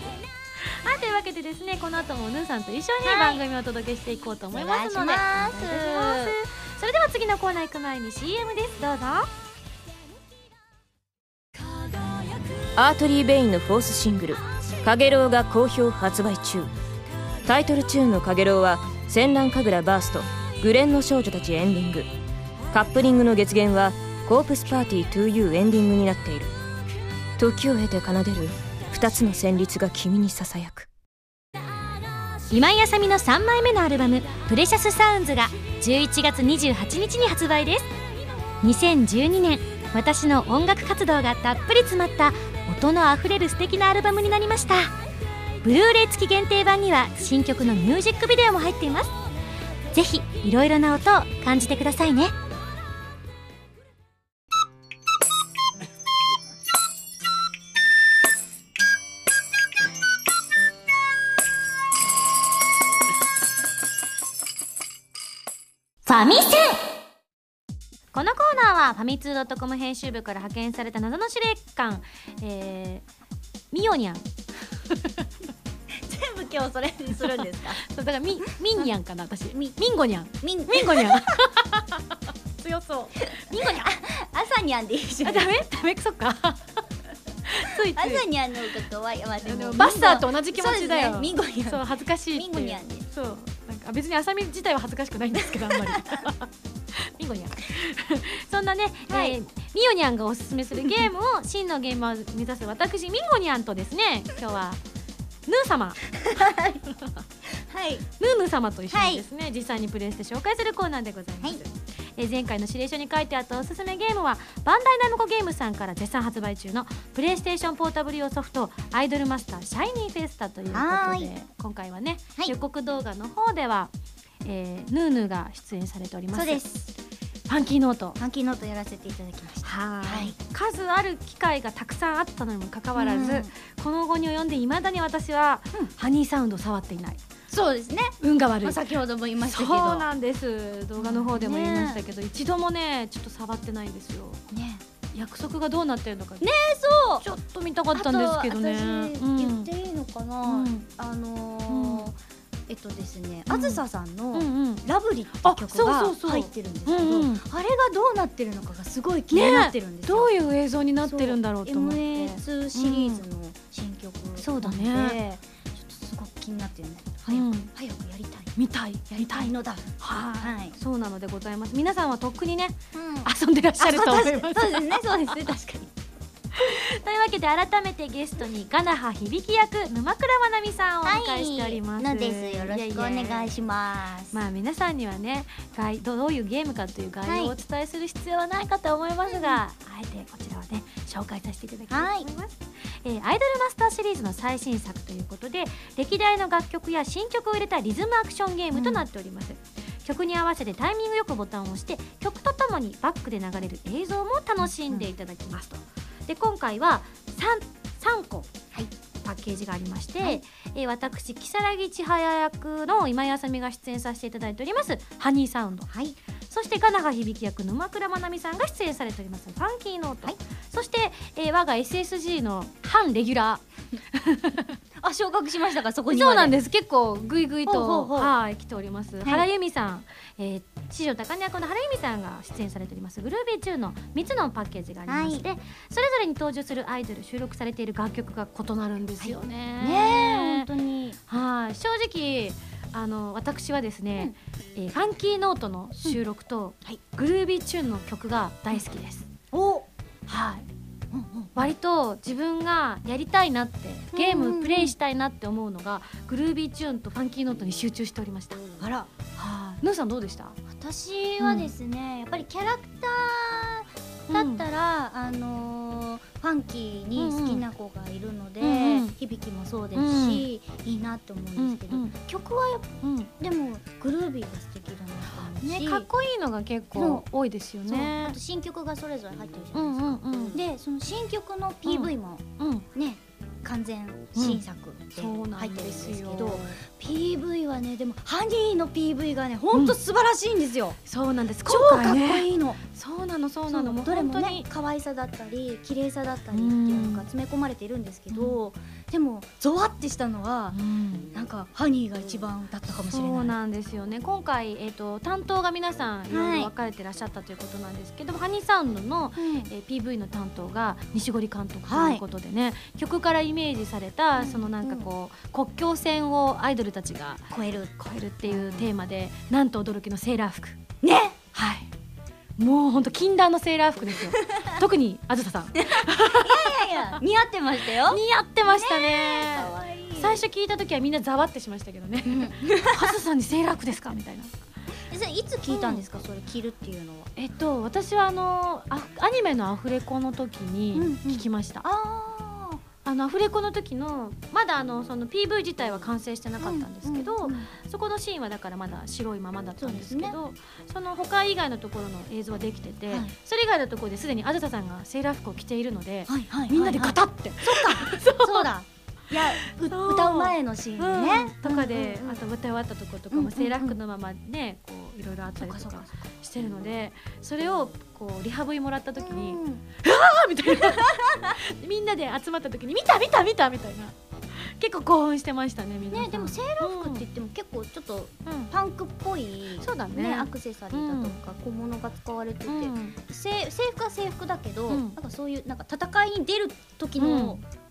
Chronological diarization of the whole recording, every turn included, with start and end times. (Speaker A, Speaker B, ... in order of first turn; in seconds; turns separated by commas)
Speaker A: 0.6-9.3, Speaker B: 3.0-3.4, Speaker B: 4.5-6.4, Speaker C: 12.8-16.7, Speaker C: 17.5-22.1, Speaker C: 22.7-26.5, Speaker C: 27.4-30.9, Speaker A: 32.5-37.9, Speaker A: 38.6-44.9, Speaker A: 45.6-49.1, Speaker A: 49.9-52.3, Speaker A: 66.1-66.8, Speaker A: 68.1-73.0, Speaker A: 73.7-74.2, Speaker B: 75.9-77.8, Speaker A: 77.4-82.0, Speaker B: 80.4-81.3, Speaker A: 82.6-83.9, Speaker B: 83.2-85.5, Speaker A: 85.2-86.7, Speaker A: 87.5-88.3, Speaker B: 87.9-91.8, Speaker A: 89.4-104.8, Speaker B: 92.3-93.0, Speaker B: 99.1-99.4, Speaker A: 105.5-106.1, Speaker B: 106.2-106.9, Speaker B: 107.6-108.0, Speaker A: 108.2-123.9, Speaker B: 108.9-109.2, Speaker B: 120.7-121.3, Speaker A: 124.4-126.7, Speaker B: 126.3-126.9, Speaker A: 127.5-128.2, Speaker B: 128.2-130.4, Speaker A: 129.6-137.2, Speaker B: 132.9-133.5, Speaker B: 137.5-140.1, Speaker A: 138.2-138.8, Speaker A: 139.4-144.4, Speaker B: 141.0-142.0, Speaker B: 144.5-144.8, Speaker A: 145.1-146.5, Speaker B: 146.4-147.2, Speaker A: 147.2-149.7, Speaker B: 147.9-152.2, Speaker A: 150.4-150.9, Speaker A: 151.7-152.1, Speaker B: 152.7-160.3, Speaker A: 153.5-153.8, Speaker A: 154.3-154.8, Speaker A: 155.4-157.4, Speaker A: 159.3-163.2, Speaker B: 161.0-168.5, Speaker A: 164.4-165.2, Speaker A: 167.3-167.7, Speaker A: 168.6-175.3, Speaker B: 169.1-170.8, Speaker B: 172.9-175.9, Speaker A: 176.6-183.6, Speaker B: 181.0-184.4, Speaker A: 184.3-208.5, Speaker B: 187.3-187.6, Speaker B: 189.3-189.6, Speaker B: 191.9-192.3, Speaker B: 198.7-199.1, Speaker A: 209.2-215.9, Speaker B: 215.9-216.2, Speaker A: 216.5-224.8, Speaker B: 225.0-226.6, Speaker A: 226.1-240.7, Speaker B: 227.7-228.3, Speaker B: 229.2-229.5, Speaker B: 235.1-235.4, Speaker B: 239.2-241.2, Speaker A: 241.3-249.3, Speaker B: 249.5-249.9, Speaker A: 250.3-250.7, Speaker B: 251.1-251.7, Speaker A: 251.6-258.6, Speaker B: 254.1-254.9, Speaker B: 258.8-259.1, Speaker A: 259.4-260.6, Speaker B: 260.7-276.1, Speaker A: 261.4-261.7, Speaker A: 264.3-264.6, Speaker A: 267.2-267.6, Speaker A: 268.6-269.1, Speaker A: 269.9-270.5, Speaker A: 271.6-272.1, Speaker A: 273.0-273.3, Speaker A: 275.4-278.4, Speaker B: 276.9-277.2, Speaker B: 277.9-291.0, Speaker A: 279.7-280.6, Speaker A: 281.9-282.9, Speaker A: 284.4-284.6, Speaker A: 285.1-286.8, Speaker A: 291.1-294.7, Speaker B: 291.7-292.8, Speaker B: 293.7-300.8, Speaker A: 296.5-297.3, Speaker A: 298.3-298.6, Speaker A: 300.7-301.3, Speaker B: 301.3-303.6, Speaker A: 303.1-320.8, Speaker B: 306.3-306.7, Speaker B: 309.4-309.7, Speaker B: 311.9-312.2, Speaker B: 314.4-315.1, Speaker B: 317.5-317.9, Speaker B: 318.4-318.9, Speaker B: 321.0-321.4, Speaker A: 321.5-321.9, Speaker A: 322.6-327.2, Speaker B: 325.8-330.4, Speaker A: 328.1-334.5, Speaker B: 332.3-333.1, Speaker B: 335.1-337.3, Speaker A: 335.7-336.0, Speaker A: 337.4-341.9, Speaker B: 340.9-342.8, Speaker A: 343.1-358.7, Speaker B: 346.6-347.7, Speaker B: 349.8-350.4, Speaker B: 356.3-362.4, Speaker A: 359.4-377.2, Speaker B: 363.3-364.0, Speaker B: 365.6-366.1, Speaker B: 369.2-369.8, Speaker B: 370.7-371.6, Speaker B: 376.1-387.6, Speaker A: 378.5-378.7, Speaker A: 379.8-381.4, Speaker A: 382.7-383.2, Speaker A: 384.9-385.2, Speaker A: 387.2-387.6